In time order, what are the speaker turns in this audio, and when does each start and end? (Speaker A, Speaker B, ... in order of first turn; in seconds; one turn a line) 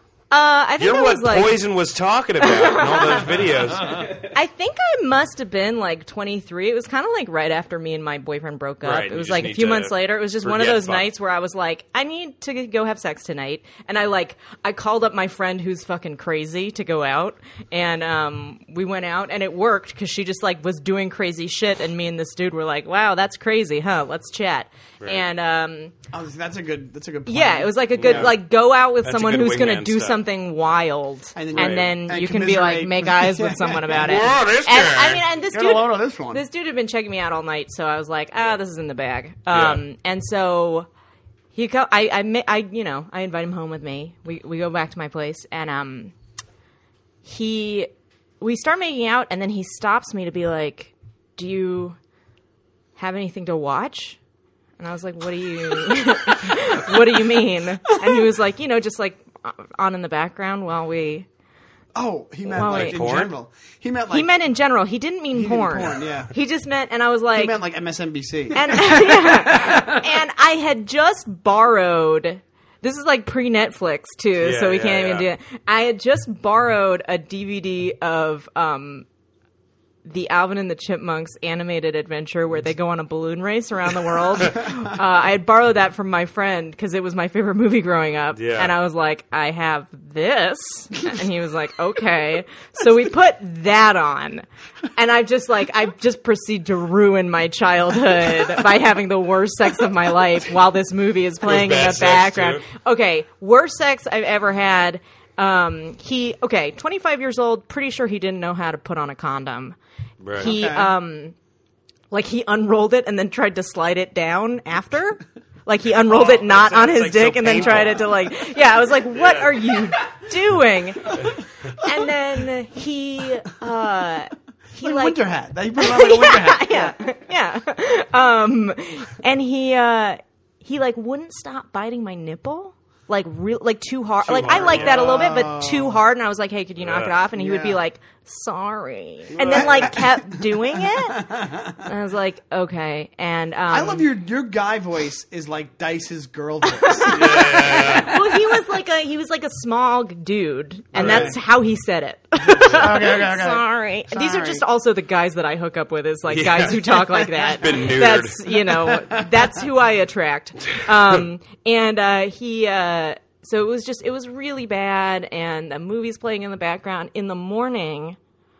Speaker A: 0.3-1.6
Speaker B: 0.8-4.1
Speaker A: 2.4-3.2
Speaker A: 4.3-25.9
Speaker B: 8.8-11.1
Speaker C: 26.1-28.3
Speaker A: 27.2-40.9
Speaker B: 27.9-28.4
Speaker B: 29.0-30.2
Speaker C: 31.3-34.2
Speaker B: 31.5-31.9
Speaker B: 33.9-35.2
Speaker C: 35.5-36.4
Speaker B: 39.5-39.8
Speaker A: 41.5-46.1
Speaker A: 47.2-47.9
Speaker A: 48.4-52.0
Speaker A: 53.0-54.2
Speaker A: 54.8-61.2
Speaker C: 61.9-64.3
Speaker A: 62.5-63.1
Speaker B: 62.5-63.3
Speaker A: 64.1-67.6
Speaker C: 65.3-66.3
Speaker C: 67.3-70.0
Speaker A: 68.5-79.0
Speaker B: 74.4-75.3
Speaker A: 80.0-94.4
Speaker B: 88.3-88.7
Speaker A: 94.9-109.8
Speaker B: 101.4-102.6
Speaker B: 110.2-110.5
Speaker A: 110.4-111.3
Speaker C: 110.4-110.9
Speaker A: 112.1-125.2
Speaker B: 116.1-118.3
Speaker B: 119.1-119.6
Speaker C: 124.8-127.0
Speaker A: 125.8-141.3
Speaker B: 134.2-135.3
Speaker C: 134.4-136.0
Speaker B: 136.8-137.2
Speaker C: 137.4-137.8
Speaker B: 139.3-140.0
Speaker C: 139.4-141.8
Speaker A: 141.8-144.0
Speaker C: 143.7-148.3
Speaker A: 146.8-168.2
Speaker B: 147.1-148.2
Speaker B: 150.9-151.3
Speaker C: 150.9-151.4
Speaker B: 152.5-152.8
Speaker C: 152.6-154.6
Speaker B: 156.3-158.4
Speaker C: 158.7-159.4